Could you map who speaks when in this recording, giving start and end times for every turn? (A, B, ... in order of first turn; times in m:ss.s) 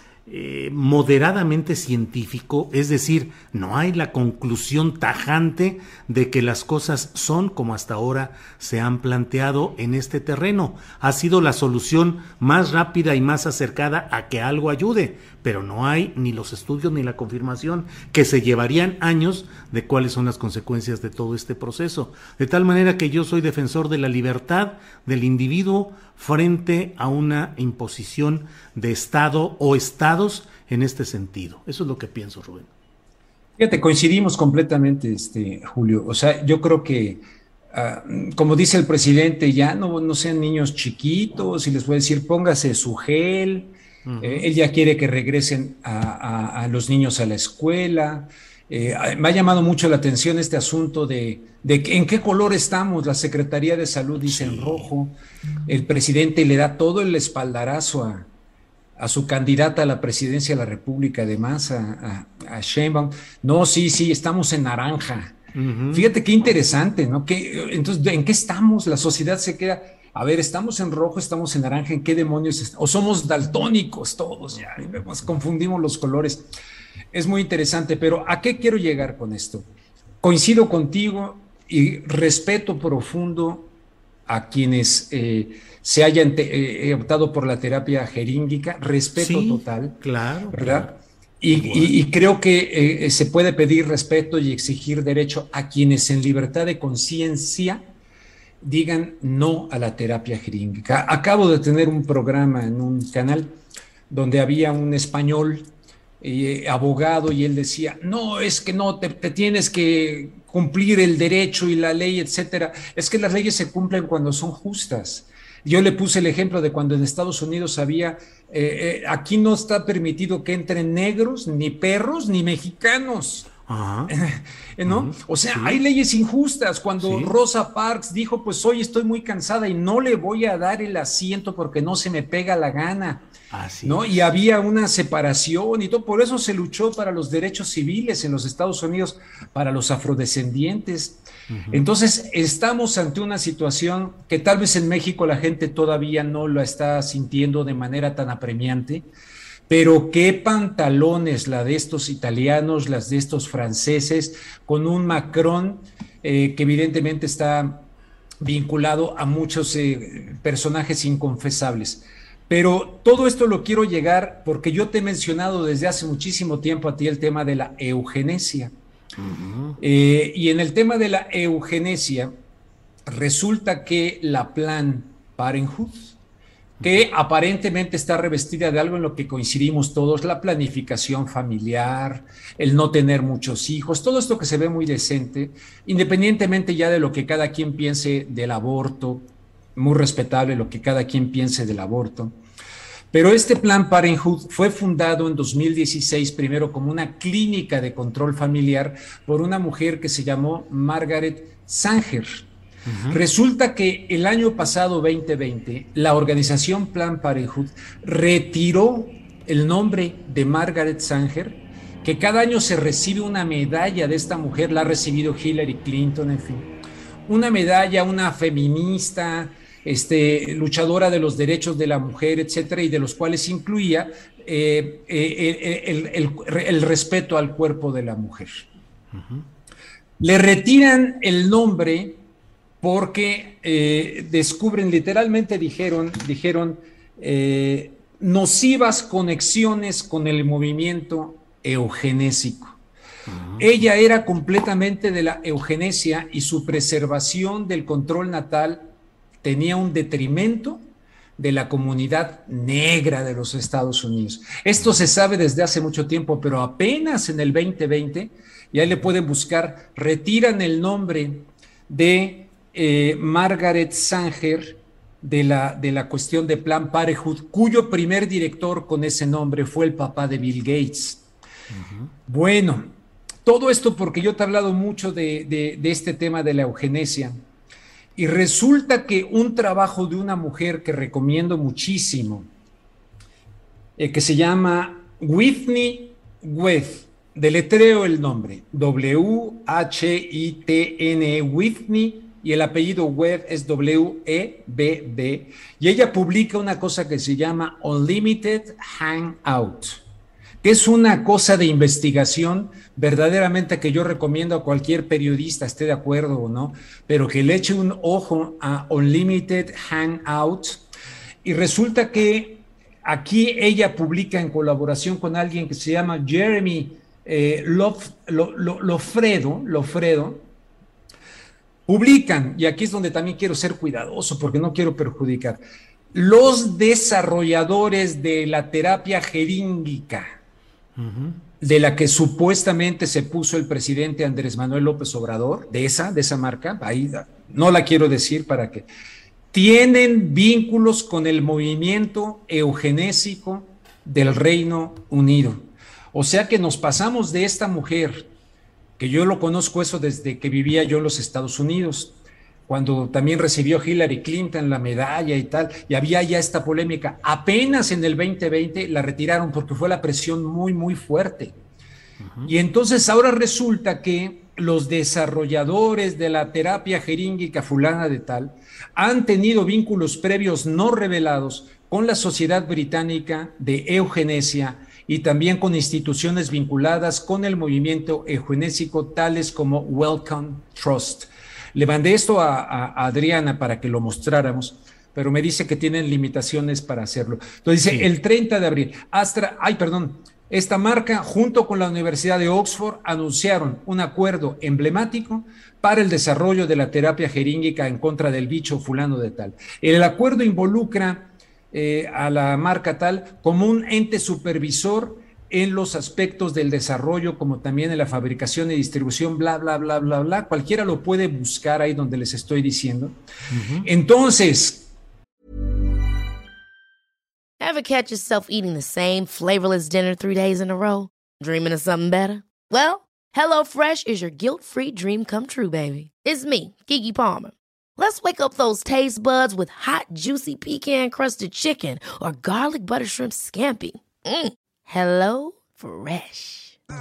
0:00.3-0:32.7 A
0:33.6-0:37.2 B
0:37.7-0:43.7 B
0:44.1-0:44.5 A
0:44.2-0:55.1 B
0:54.2-0:54.9 A
0:55.7-0:58.3 B
0:59.0-1:05.4 B
1:05.6-1:06.1 A
1:05.9-1:16.4 B
1:17.1-1:19.6 B
1:20.2-1:23.7 B
1:24.3-1:30.0 B
1:29.2-1:30.9 A
1:30.5-1:37.8 B
1:31.5-1:31.9 A
1:38.6-1:43.5 B
1:44.1-1:45.7 B
1:46.2-2:03.5 B
2:03.6-2:04.1 A
2:04.1-2:13.2 B
2:04.9-2:05.8 A
2:07.0-2:07.3 A
2:13.5-2:14.2 A
2:13.8-2:21.2 B
2:21.5-2:21.8 A
2:21.7-2:29.0 B
2:29.7-2:37.8 B
2:38.4-2:48.7 B
2:49.2-2:49.8 A
2:49.8-2:52.3 B
2:53.1-2:56.2 B
2:56.8-3:12.4 B
3:13.1-3:22.5 B
3:22.9-3:23.2 A
3:23.1-3:36.7 B
3:37.3-3:48.7 B
3:49.1-3:49.4 A
3:50.2-3:52.1 B
3:52.8-4:02.8 B
4:03.3-4:03.7 A
4:03.6-4:08.8 B
4:09.4-4:10.8 B
4:11.4-4:31.2 B
4:31.7-4:32.1 A
4:32.3-4:32.9 B
4:33.4-4:37.4 B
4:38.2-4:42.5 B
4:44.0-5:00.0 B
5:00.6-5:10.8 B
5:11.4-5:20.4 B
5:21.9-5:25.6 B
5:26.1-5:30.3 B
5:31.0-5:31.4 A
5:31.6-5:38.9 B
5:39.5-5:48.3 B
5:49.0-5:52.1 B
5:52.7-6:01.6 B
6:02.2-6:02.5 A
6:02.5-6:53.2 B
6:53.5-6:53.9 A
6:53.8-6:54.9 B
6:57.6-7:16.8 C